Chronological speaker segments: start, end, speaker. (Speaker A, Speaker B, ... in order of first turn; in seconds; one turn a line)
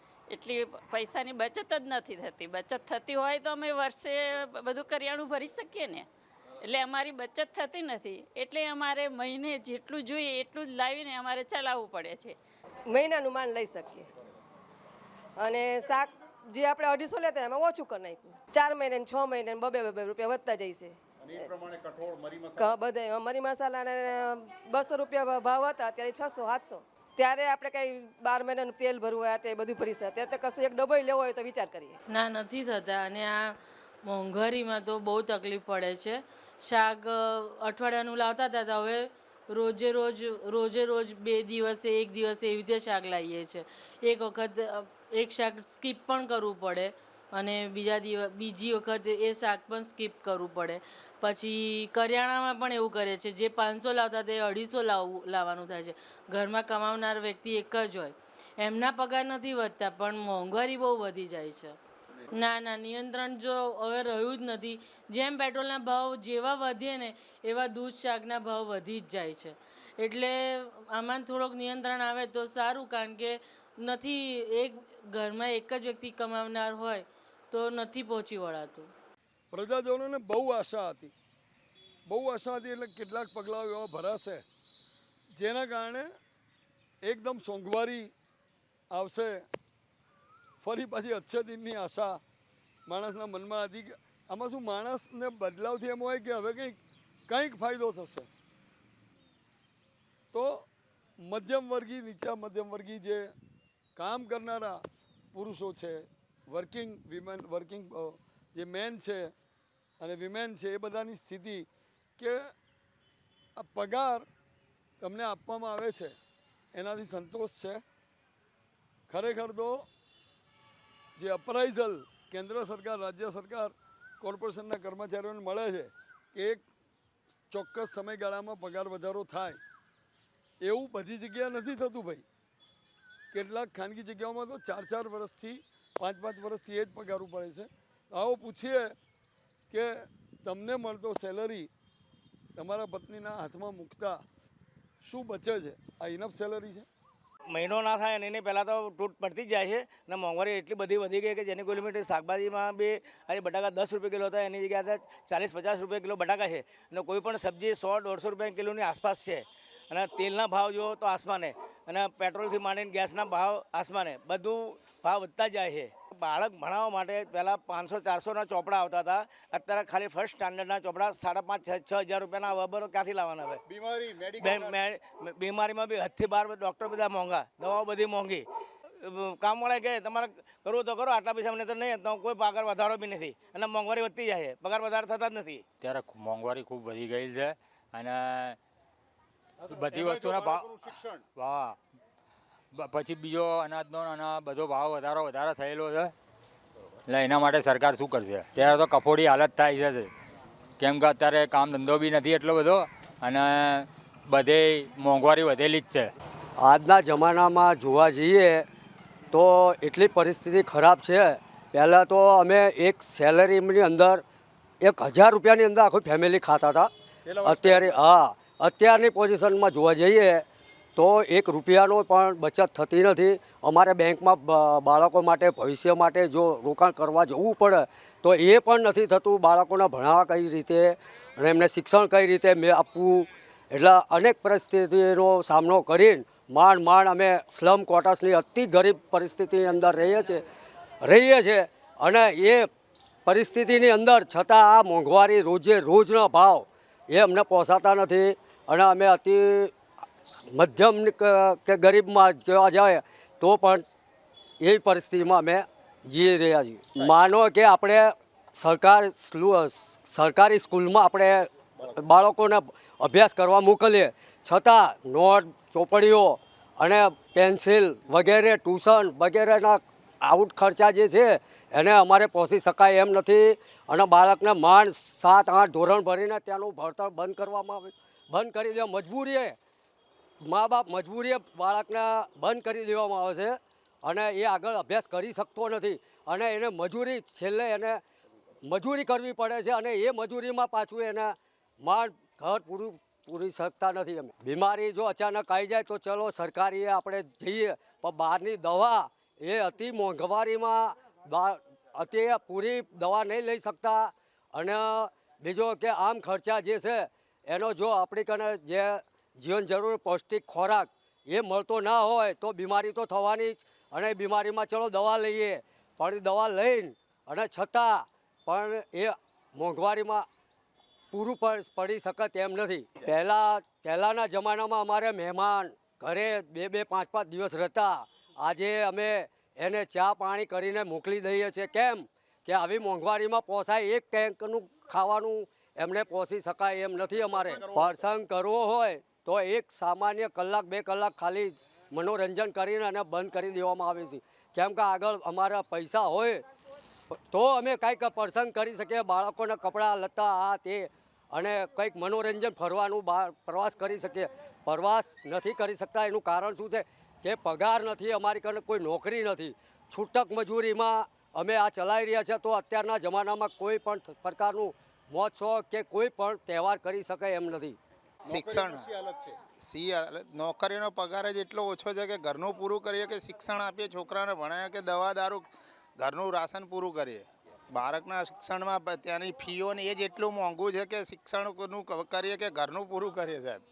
Speaker A: 0.3-6.0
Speaker A: 6.6-12.3
Speaker B: 12.9-14.1
Speaker B: 15.4-21.5
Speaker C: 21.2-22.7
Speaker B: 22.6-32.0
Speaker D: 32.1-61.8
Speaker D: 62.3-78.9
Speaker E: 79.5-81.1
Speaker E: 82.1-84.4
Speaker E: 85.3-86.1
Speaker E: 87.0-88.1
Speaker E: 88.9-89.4
Speaker E: 90.6-92.2
Speaker E: 92.9-98.3
Speaker E: 100.3-100.7
Speaker E: 101.2-103.3
Speaker E: 104.0-104.8
Speaker E: 105.3-109.3
Speaker E: 110.0-111.7
Speaker E: 112.2-112.5
Speaker E: 113.6-114.2
Speaker E: 115.0-116.2
Speaker E: 116.7-117.8
Speaker E: 119.1-119.8
Speaker E: 121.2-126.6
Speaker E: 127.5-129.6
Speaker E: 130.6-132.2
Speaker E: 133.3-138.9
Speaker E: 139.7-141.7
Speaker E: 142.6-144.2
Speaker E: 145.0-146.9
Speaker F: 147.5-173.6
Speaker C: 173.7-174.8
Speaker F: 174.4-178.4
Speaker F: 179.0-185.6
Speaker G: 185.8-188.6
Speaker G: 189.7-190.7
Speaker C: 189.9-191.2
Speaker G: 191.3-191.8
Speaker G: 192.7-196.1
Speaker G: 197.1-200.1
Speaker G: 200.8-206.1
Speaker H: 206.6-208.7
Speaker H: 209.3-214.2
Speaker H: 214.8-216.9
Speaker C: 217.2-218.0
Speaker H: 217.4-220.4
Speaker H: 220.9-240.4
Speaker H: 241.0-242.7
Speaker H: 243.2-249.7
Speaker H: 250.5-253.9
Speaker H: 254.6-279.6
Speaker H: 280.4-288.0
Speaker H: 288.6-320.3
Speaker H: 321.1-346.4
Speaker C: 337.1-338.1
Speaker H: 347.3-367.8
Speaker C: 368.2-369.4
Speaker I: 368.3-368.9
Speaker I: 369.5-383.6